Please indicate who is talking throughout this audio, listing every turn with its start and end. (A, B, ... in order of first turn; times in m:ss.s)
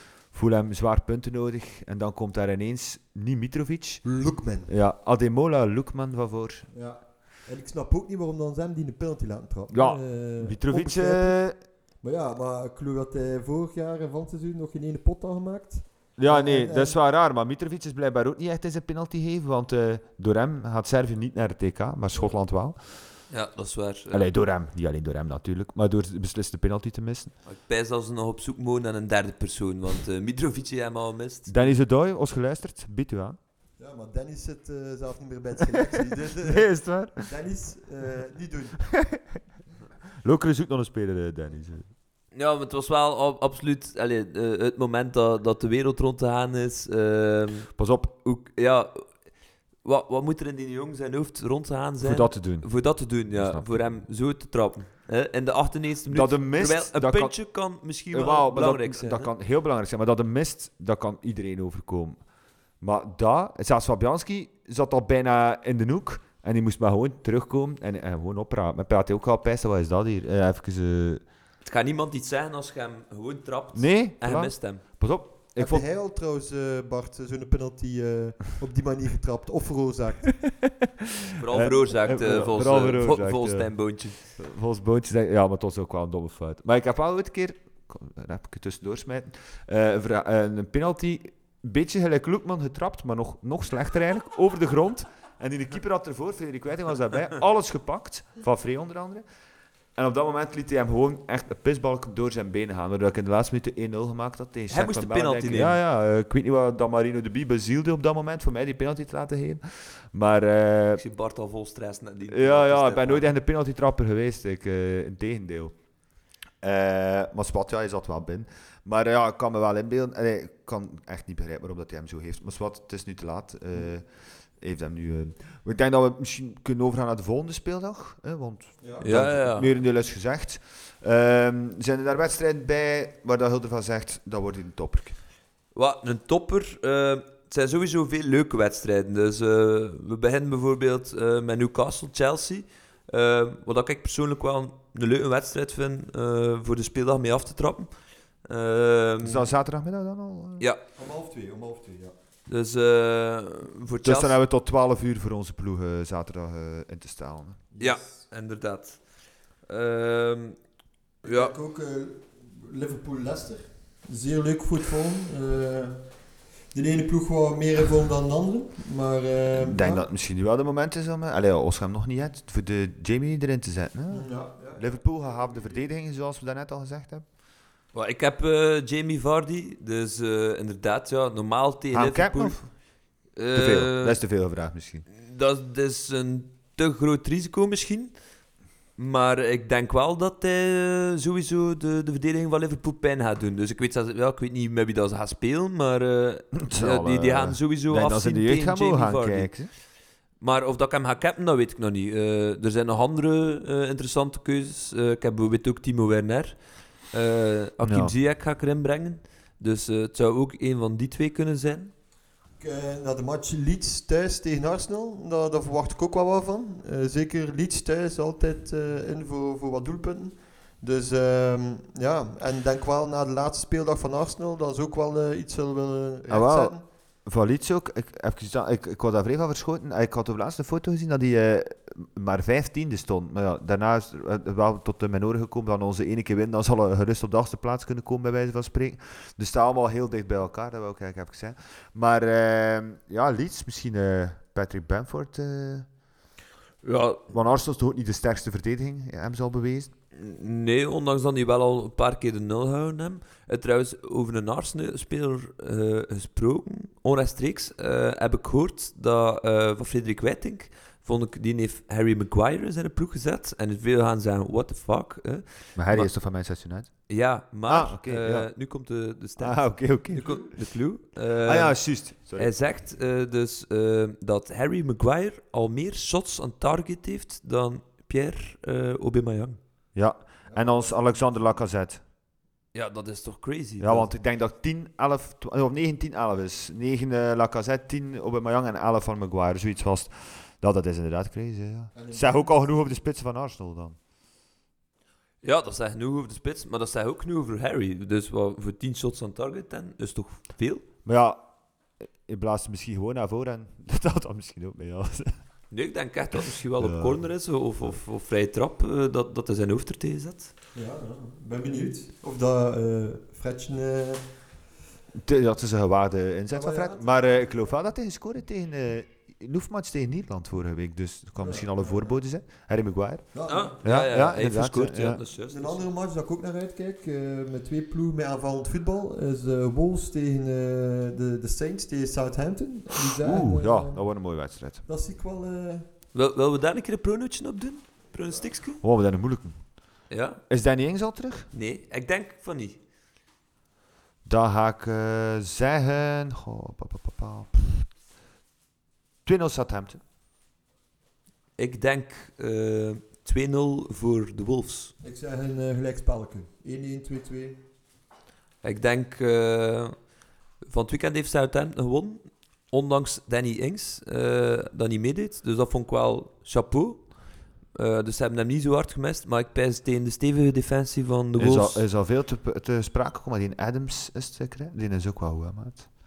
0:00.3-0:04.0 A
0:04.0-0:04.7 B
0:04.7-0:06.7 A
0:06.7-0:11.4 B
0:09.7-0:11.6 A
0:12.0-0:17.0 B
0:16.2-0:22.8 A
0:23.3-0:24.2 C
0:24.1-0:27.3 A
0:27.5-0:31.7 C
0:31.5-0:33.4 A
0:33.8-0:39.0 B
0:36.3-0:37.3 A
0:38.9-0:39.3 A
0:40.2-0:41.9 A
0:42.3-0:49.2 C
0:47.8-0:48.1 A
0:49.8-0:59.3 C
0:52.0-0:53.7 A
0:56.1-0:57.4 A
0:58.1-1:02.2 A
1:02.8-1:11.2 A
1:11.6-1:14.8 C
1:13.8-1:15.9 A
1:15.6-1:20.5 B
1:21.4-1:24.2 C
1:21.5-1:39.2 A
1:40.0-1:51.0 A
1:44.7-1:45.8 C
1:51.0-1:53.3 C
1:52.3-1:55.8 A
1:56.6-2:15.2 A
2:08.8-2:09.1 B
2:09.0-2:09.7 C
2:15.8-2:27.9 C
2:28.4-2:29.5 C
2:29.2-2:30.7 A
2:31.0-2:32.1 B
2:32.5-2:34.4 C
2:34.0-2:37.6 A
2:37.7-2:38.0 B
2:37.8-2:39.0 C
2:39.7-2:40.6 C
2:41.2-2:41.5 C
2:41.2-2:46.0 B
2:46.7-2:50.1 B
2:49.5-2:57.2 A
2:54.1-2:55.8 B
2:57.9-3:02.6 C
3:01.9-3:02.8 A
3:03.4-3:04.2 C
3:03.5-3:05.0 A
3:05.1-3:08.1 C
3:09.0-3:19.6 C
3:16.6-3:19.7 A
3:20.4-3:26.6 C
3:27.1-3:31.9 C
3:27.8-3:28.1 A
3:32.6-3:46.8 B
3:46.3-3:46.7 A
3:47.3-4:05.9 A
4:06.8-4:07.3 C
4:07.3-4:09.9 A
4:10.2-4:26.1 C
4:25.8-4:26.9 A
4:27.1-4:39.6 C
4:27.7-4:28.5 A
4:29.4-4:30.7 A
4:30.2-4:30.5 B
4:31.4-4:32.5 A
4:40.0-4:42.0 A
4:40.5-4:41.3 B
4:42.7-4:44.1 C
4:43.8-4:54.0 A
4:51.9-4:52.9 B
4:55.4-5:00.8 C
5:01.0-5:01.4 A
5:02.2-5:05.4 A
5:05.7-5:10.5 C
5:06.8-5:07.2 A
5:10.8-5:14.3 B
5:15.1-5:25.2 A
5:16.5-5:17.7 B
5:21.4-5:22.2 B
5:23.3-5:23.8 B
5:23.5-5:25.9 C
5:25.5-5:34.0 B
5:33.2-5:34.8 A
5:34.9-5:35.9 B
5:36.1-5:38.8 C
5:38.8-5:39.6 A
5:40.1-5:40.4 C
5:40.5-5:41.5 A
5:41.5-5:42.8 C
5:44.2-5:47.9 A
5:49.2-5:50.0 A
5:51.6-5:54.9 C
5:55.0-5:57.6 B
5:58.6-6:00.0 C
6:00.7-6:07.1 C
6:07.7-6:11.8 C
6:11.4-6:15.9 A